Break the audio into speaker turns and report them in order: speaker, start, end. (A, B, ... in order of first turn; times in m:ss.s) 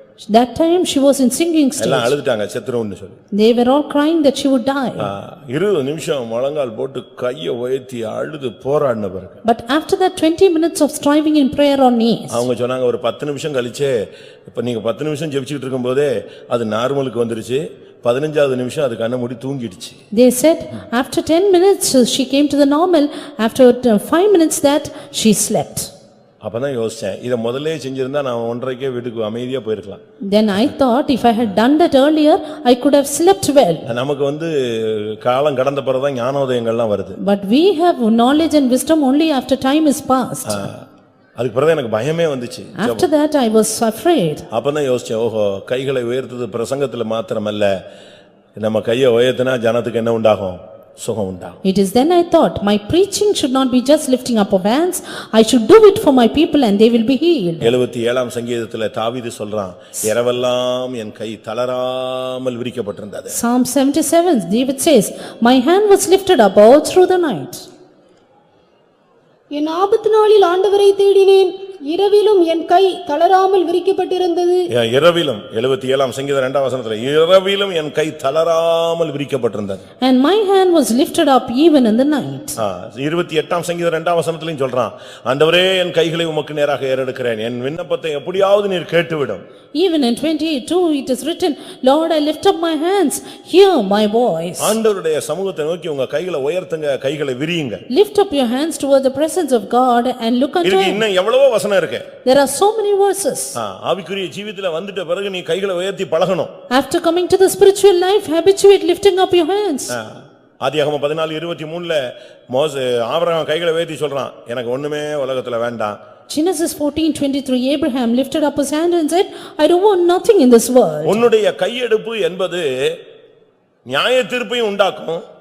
0:00.2-0:02.1 A
0:01.8-0:03.2 B
0:03.3-0:05.1 A
0:05.0-0:09.4 B
0:09.4-0:12.5 A
0:12.3-0:13.9 B
0:14.5-0:20.0 B
0:20.1-0:25.9 A
0:26.4-0:30.0 B
0:30.3-0:33.9 A
0:33.9-0:37.2 B
0:37.2-0:40.7 A
0:40.5-0:40.8 B
0:41.4-0:43.1 B
0:42.8-0:44.5 A
0:44.5-0:47.8 B
0:48.6-0:51.6 B
0:51.6-0:57.7 A
0:57.6-1:03.4 B
1:03.3-1:07.6 A
1:09.5-1:14.6 C
1:14.7-1:19.8 B
1:20.0-1:22.6 A
1:22.6-1:29.4 B
1:29.7-1:34.8 A
1:34.6-1:37.8 B
1:37.9-1:41.0 A
1:40.6-1:42.1 B
1:42.2-1:43.6 A
1:43.5-1:46.5 B
1:46.7-1:49.9 A
1:49.9-1:56.0 B
1:56.3-2:01.3 A
2:01.0-2:03.0 B
2:03.8-2:05.2 B